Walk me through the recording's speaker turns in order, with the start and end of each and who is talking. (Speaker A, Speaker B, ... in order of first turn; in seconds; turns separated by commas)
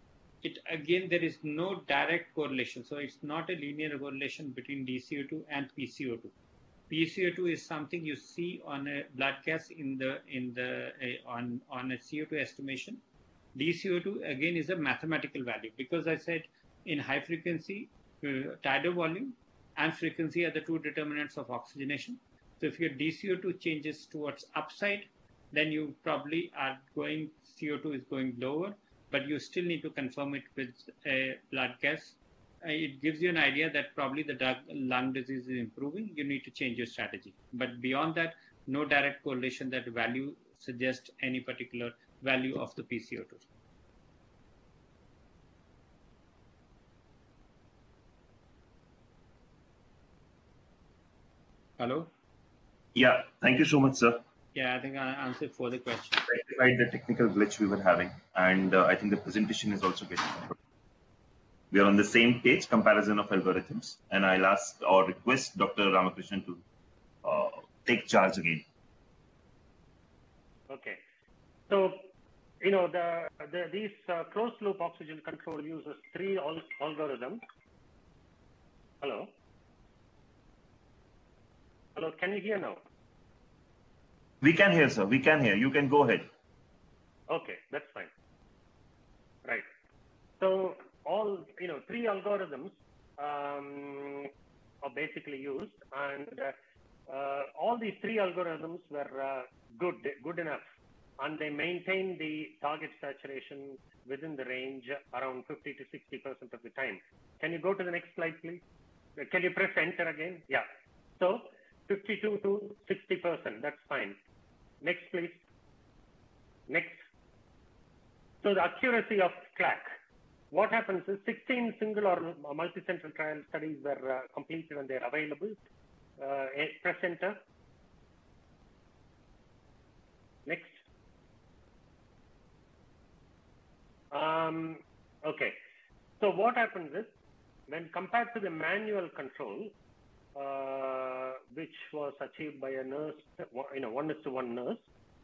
Speaker A: 0.4-6.3, Speaker A: 6.9-13.0, Speaker A: 13.5-43.5, Speaker A: 51.8-52.1, Speaker B: 52.9-54.2, Speaker A: 54.5-56.3, Speaker B: 56.3-60.5, Speaker B: 61.7-66.6, Speaker B: 67.2-68.6, Speaker C: 70.7-71.0, Speaker C: 71.7-77.4, Speaker C: 79.0-79.3, Speaker C: 81.9-82.8, Speaker B: 84.4-86.3, Speaker C: 87.3-88.1, Speaker C: 90.4-94.3, Speaker C: 94.8-96.5, Speaker C: 97.1-100.7, Speaker C: 101.2-108.6, Speaker C: 109.2-110.6, Speaker C: 111.2-114.2, Speaker C: 114.8-115.4, Speaker C: 116.7-117.0, Speaker C: 118.4-119.9, Speaker C: 120.5-125.6, Speaker C: 126.2-127.4, Speaker C: 130.4-130.8, Speaker C: 134.1-135.6, Speaker C: 136.2-137.1, Speaker C: 137.7-139.7, Speaker C: 140.3-144.8